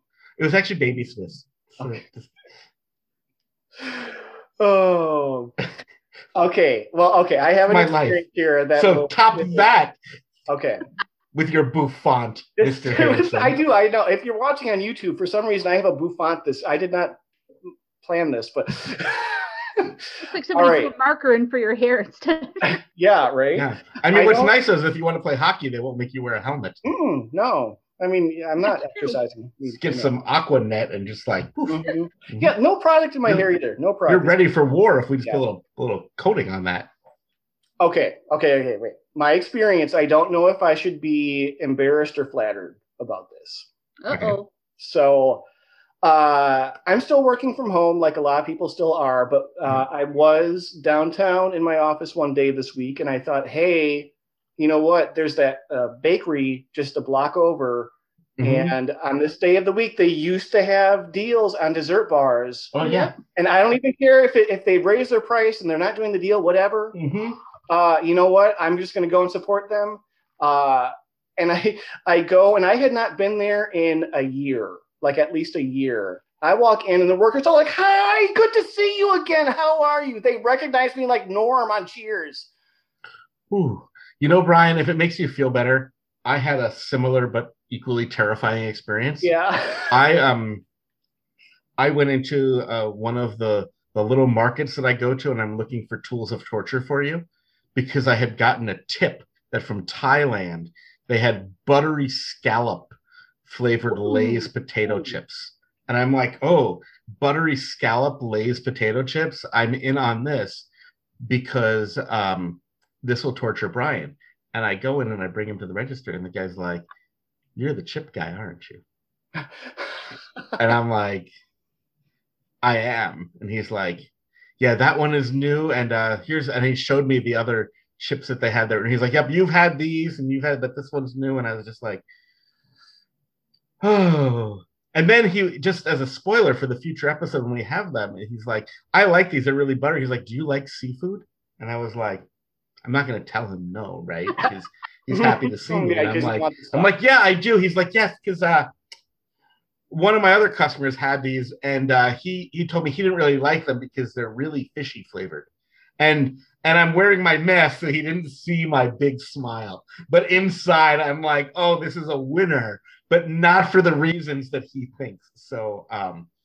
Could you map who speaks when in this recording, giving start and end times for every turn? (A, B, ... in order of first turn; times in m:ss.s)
0:00.4-0:02.3 A
0:03.8-0:05.5 B
0:06.3-0:09.7 B
0:07.7-0:08.2 A
0:08.8-0:10.0 A
0:10.5-0:10.8 B
0:11.3-0:13.6 A
0:12.6-0:17.2 B
0:18.0-0:20.0 B
0:20.2-0:22.8 C
0:20.5-0:20.9 B
0:22.6-0:24.5 B
0:23.5-0:26.8 A
0:26.8-0:30.1 B
0:28.6-0:29.2 C
0:29.8-0:32.5 A
0:31.7-0:34.4 B
0:34.1-0:36.9 A
0:37.8-0:43.7 B
0:44.0-0:44.5 C
0:44.1-0:44.4 A
0:44.8-0:45.4 B
0:46.0-1:07.0 B
0:58.4-0:58.7 A
1:02.7-1:03.1 A
1:02.8-1:03.1 C
1:06.9-1:07.4 A
1:07.7-1:22.5 B
1:23.5-1:29.3 A
1:29.2-1:30.0 B
1:29.9-1:30.6 A
1:31.8-1:42.9 A
1:43.4-1:50.7 A
1:51.2-1:56.9 A
1:57.5-1:58.8 A
2:00.6-2:01.3 A
2:02.6-2:12.0 A
2:13.8-2:22.2 A
2:22.8-2:28.7 A
2:25.1-2:26.9 B
2:29.9-2:35.5 A
2:36.0-2:46.3 A